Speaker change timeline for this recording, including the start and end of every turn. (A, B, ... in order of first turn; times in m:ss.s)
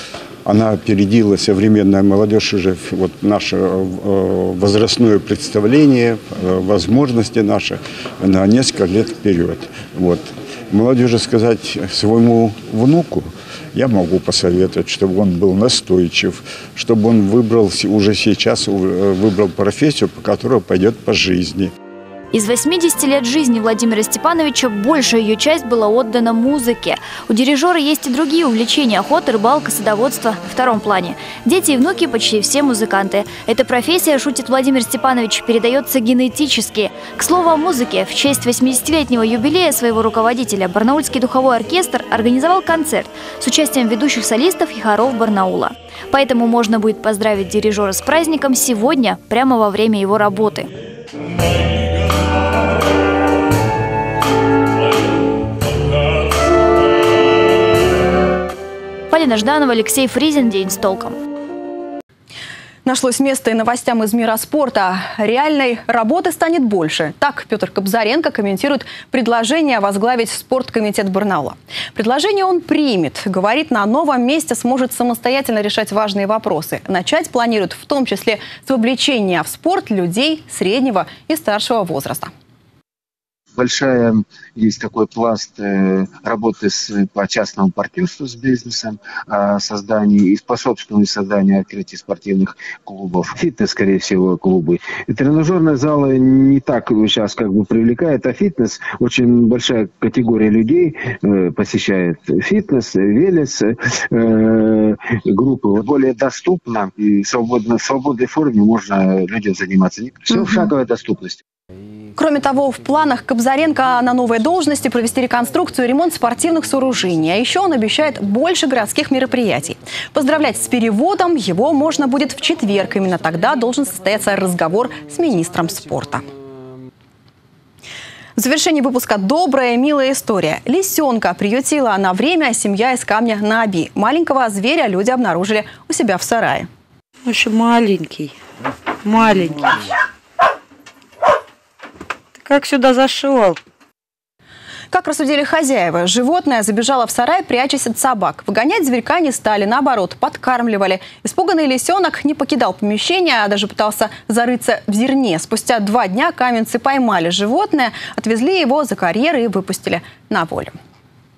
0:00.4-0:21.7 A
0:22.3-0:50.7 B
0:59.1-1:01.2 B
1:02.8-1:22.3 C
1:23.6-1:51.4 D
1:52.2-2:06.2 C
2:08.4-2:16.7 C
2:17.2-2:18.3 E
2:19.0-2:19.6 E
2:22.4-2:23.6 E
2:24.9-2:40.7 C